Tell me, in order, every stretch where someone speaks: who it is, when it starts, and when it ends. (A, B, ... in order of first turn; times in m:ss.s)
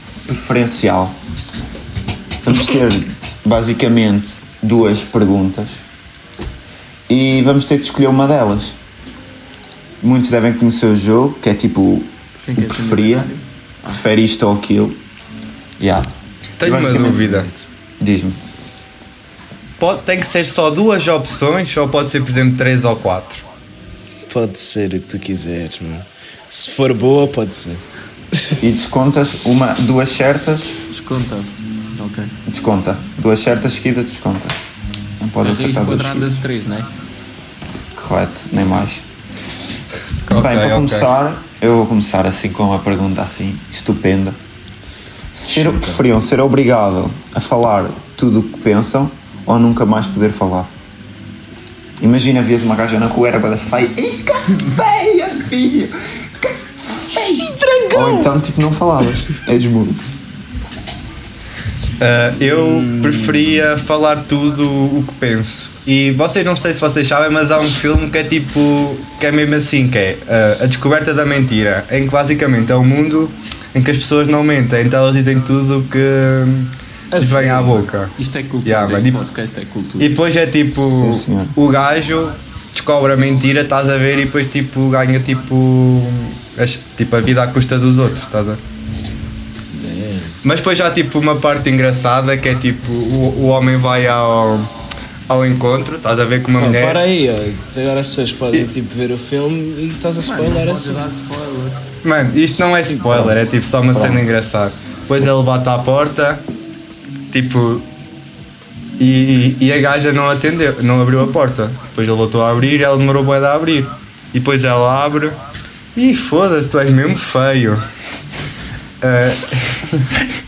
0:00.2-0:01.2 A
0:02.4-0:05.8 A
0:07.1-0:08.8 A
0:10.0-0:13.3 A
0:12.4-0:13.9 B
0:13.8-0:15.0 A
0:15.8-0:16.1 A
0:16.6-0:17.5 C
0:16.6-0:17.5 A
0:17.3-0:17.7 D
0:18.0-0:18.4 A
0:19.8-0:23.4 C
0:24.3-0:27.8 D
0:28.6-0:30.8 A
0:30.9-0:32.3 B
0:32.4-0:34.6 A
0:35.2-0:36.4 A
0:35.4-0:36.9 B
0:37.9-0:39.0 A
0:40.3-0:41.1 C
0:40.3-0:44.4 A
0:45.3-0:50.7 A
0:45.5-0:46.0 D
0:52.0-1:00.1 A
0:57.6-0:58.1 D
1:02.0-1:18.1 C
1:02.4-1:03.4 D
1:17.1-1:17.8 D
1:18.2-1:20.2 B
1:18.6-1:19.2 C
1:20.0-1:28.6 C
1:20.7-1:21.6 A
1:29.7-1:30.4 D
1:30.4-1:34.7 C
1:35.3-1:37.0 C
1:36.6-1:41.0 D
1:40.2-1:41.8 B
1:42.0-1:46.4 C
1:42.8-1:43.5 D
1:43.1-1:43.4 A
1:43.9-1:44.3 A
1:47.3-1:47.9 C
1:49.0-1:55.4 C
1:55.9-1:57.8 C
1:59.0-2:00.3 C